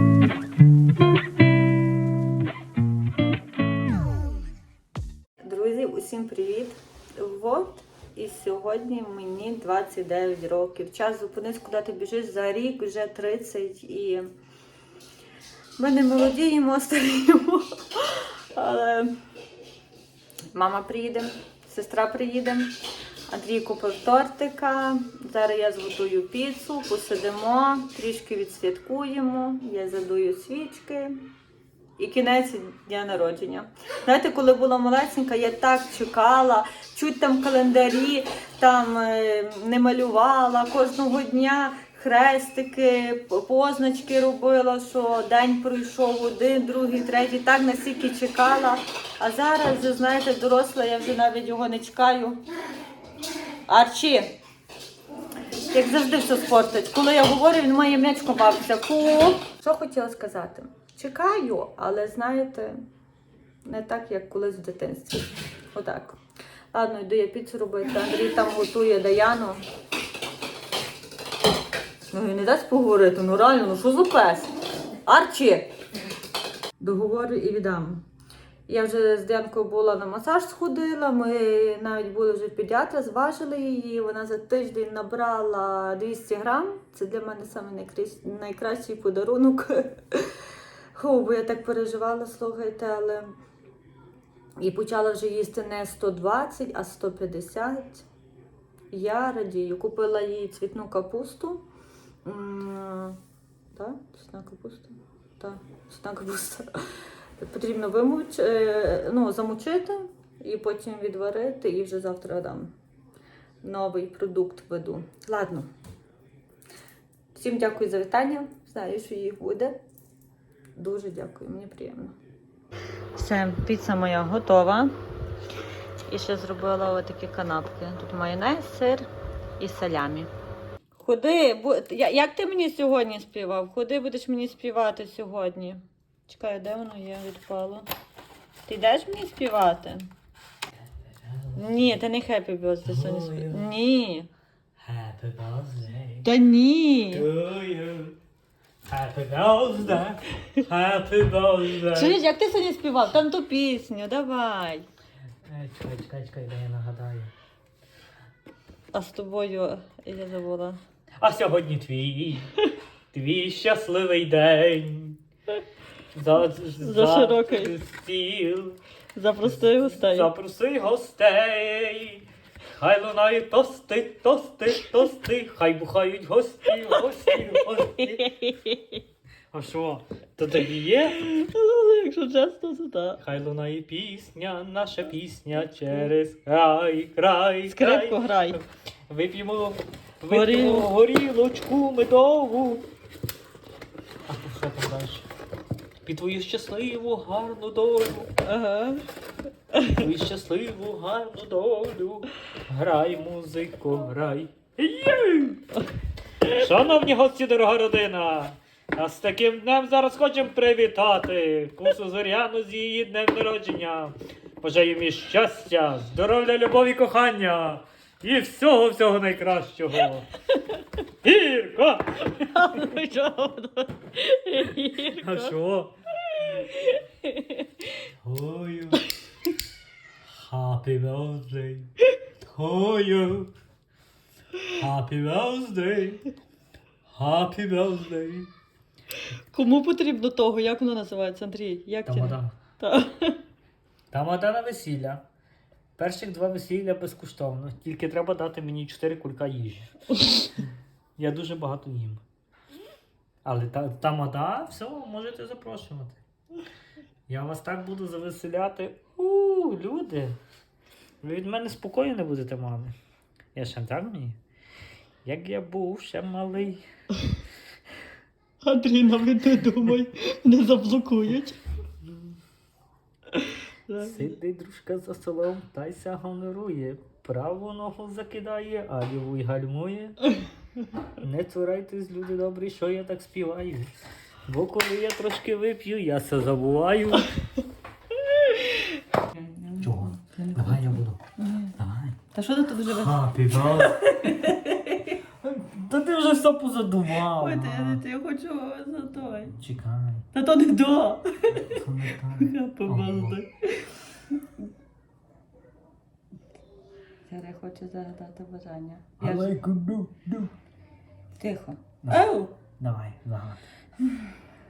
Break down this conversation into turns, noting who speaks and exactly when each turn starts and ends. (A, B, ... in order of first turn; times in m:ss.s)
0:05.4-0:14.3 A
0:15.8-0:19.1 A
0:20.5-0:22.7 A
0:23.3-0:31.2 A
0:32.0-0:52.4 A
0:53.7-0:54.3 A
0:55.7-1:02.8 A
1:03.6-1:06.2 A
1:06.7-1:09.6 A
1:12.1-1:14.5 A
1:15.0-1:15.7 A
1:16.8-1:18.0 A
1:18.7-1:33.3 A
1:34.6-1:38.0 A
1:38.9-1:41.6 A
1:42.2-1:43.2 A
1:43.7-1:52.7 A
1:53.6-1:55.7 A
1:57.3-1:59.8 A
2:00.7-2:02.1 A
2:03.2-2:04.9 A
2:06.0-2:09.0 A
2:09.6-2:10.3 A
2:11.0-2:17.9 A
2:18.6-2:20.1 A
2:20.9-2:22.0 B
2:21.6-2:24.3 A
2:22.8-2:23.7 B
2:24.8-2:26.3 B
2:26.2-2:27.3 A
2:27.1-2:28.2 B
2:28.8-2:32.2 B
2:31.9-2:34.8 A
2:35.4-2:37.3 B
2:38.9-2:40.8 A
2:41.2-2:42.5 B
2:43.1-2:45.2 B
2:46.1-2:48.8 B
2:46.8-2:47.8 A
2:49.1-2:50.3 A
2:49.4-2:58.3 B
2:57.6-2:59.0 A
2:59.5-3:01.3 B
3:01.1-3:03.2 A
3:03.2-3:12.8 B
3:07.7-3:08.6 A
3:10.3-3:10.9 A
3:14.3-3:15.3 B
3:16.0-3:18.3 B
3:18.4-3:19.0 A
3:19.7-3:20.0 A
3:19.9-3:25.6 B
3:26.4-3:40.3 B
3:41.2-3:42.8 B
3:42.4-3:45.5 A
3:44.6-3:45.9 B
3:46.3-3:47.7 A
3:48.2-3:49.1 B
3:50.2-3:53.5 B
3:54.7-3:56.2 B
3:57.1-3:58.5 B
3:59.3-4:03.4 A
4:02.0-4:02.6 B
4:04.1-4:05.2 B
4:06.0-4:12.2 B
4:13.4-4:16.2 B
4:17.3-4:20.4 B
4:21.2-4:22.9 B
4:23.5-4:24.4 B
4:25.2-4:26.8 B
4:28.6-4:31.6 A
4:32.0-4:32.3 B
4:33.9-4:34.4 A
4:34.0-4:40.2 B
4:41.2-4:47.4 B
4:49.3-4:51.7 A
4:49.8-4:51.2 B
4:51.8-4:52.2 B
4:52.3-4:55.2 A
4:52.8-4:54.6 B
4:55.3-4:58.0 B
4:57.2-4:59.5 A
4:59.3-5:00.3 B
5:00.3-5:01.7 A
5:01.5-5:03.4 B
5:02.4-5:03.9 A
5:07.3-5:09.5 A
5:09.2-5:10.5 B
5:11.4-5:12.5 A
5:12.0-5:13.6 B